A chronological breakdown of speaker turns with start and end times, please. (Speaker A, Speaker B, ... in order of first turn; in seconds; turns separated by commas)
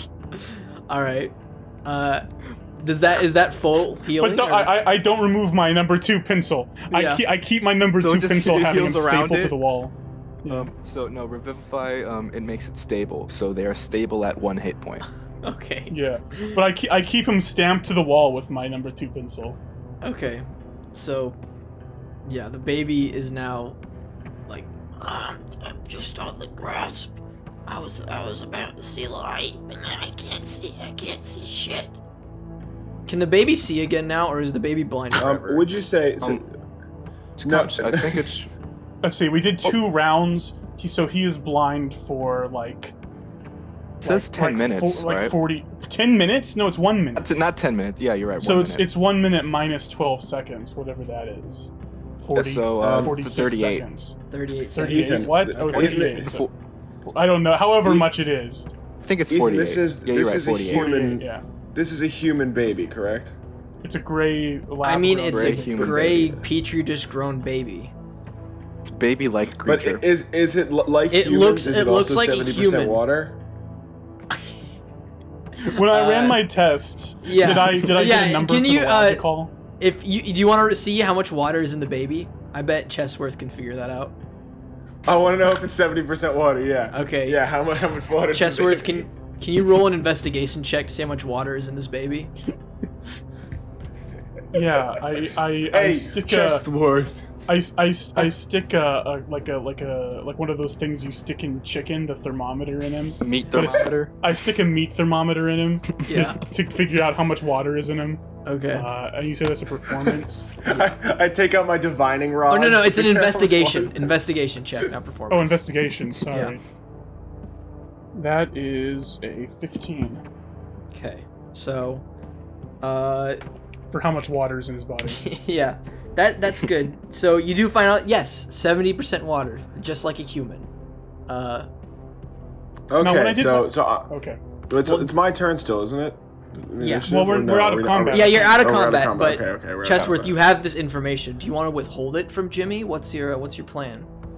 Speaker A: 0.4-1.3, Speaker A: 1.9-2.2, Speaker A: 2.8-4.7, Speaker B: 4.2-9.9, Speaker A: 6.9-7.2, Speaker C: 8.0-9.6, Speaker C: 10.5-15.0, Speaker A: 15.4-16.6, Speaker B: 15.9-19.6, Speaker A: 20.0-21.4, Speaker A: 22.2-23.8, Speaker D: 25.0-27.1, Speaker D: 27.7-31.9, Speaker A: 33.1-35.7, Speaker E: 35.1-36.5, Speaker C: 37.4-38.5, Speaker E: 37.5-38.3, Speaker B: 39.0-42.9, Speaker C: 44.0-45.3, Speaker B: 44.0-47.3, Speaker C: 47.2-48.9, Speaker B: 48.4-54.2, Speaker C: 52.3-53.9, Speaker E: 52.8-53.2, Speaker A: 54.3-55.6, Speaker B: 54.8-56.5, Speaker E: 54.8-56.4, Speaker C: 55.7-56.5, Speaker B: 57.1-58.7, Speaker C: 59.0-60.9, Speaker E: 59.3-63.4, Speaker B: 60.7-61.4, Speaker B: 63.8-66.0, Speaker A: 64.8-67.9, Speaker C: 65.3-66.5, Speaker C: 68.8-70.0, Speaker E: 69.7-73.4, Speaker A: 71.1-73.0, Speaker B: 75.7-79.5, Speaker A: 75.7-76.4, Speaker A: 77.2-79.2, Speaker A: 79.8-84.2, Speaker E: 85.1-89.1, Speaker A: 86.9-87.4, Speaker A: 88.3-92.3, Speaker B: 94.5-96.7, Speaker E: 95.7-97.3, Speaker B: 97.5-110.9, Speaker C: 103.2-104.1, Speaker A: 106.0-106.4, Speaker A: 108.5-108.9, Speaker E: 110.6-114.2, Speaker A: 112.5-115.6, Speaker B: 115.3-116.6, Speaker A: 116.3-116.6, Speaker B: 118.2-120.2, Speaker A: 120.9-122.0, Speaker A: 122.8-123.4, Speaker B: 123.9-125.2, Speaker A: 125.1-130.7, Speaker A: 131.3-131.7, Speaker E: 132.9-134.1, Speaker B: 133.0-134.4, Speaker E: 134.7-140.4, Speaker A: 136.8-137.1, Speaker B: 137.1-138.5, Speaker A: 138.1-144.1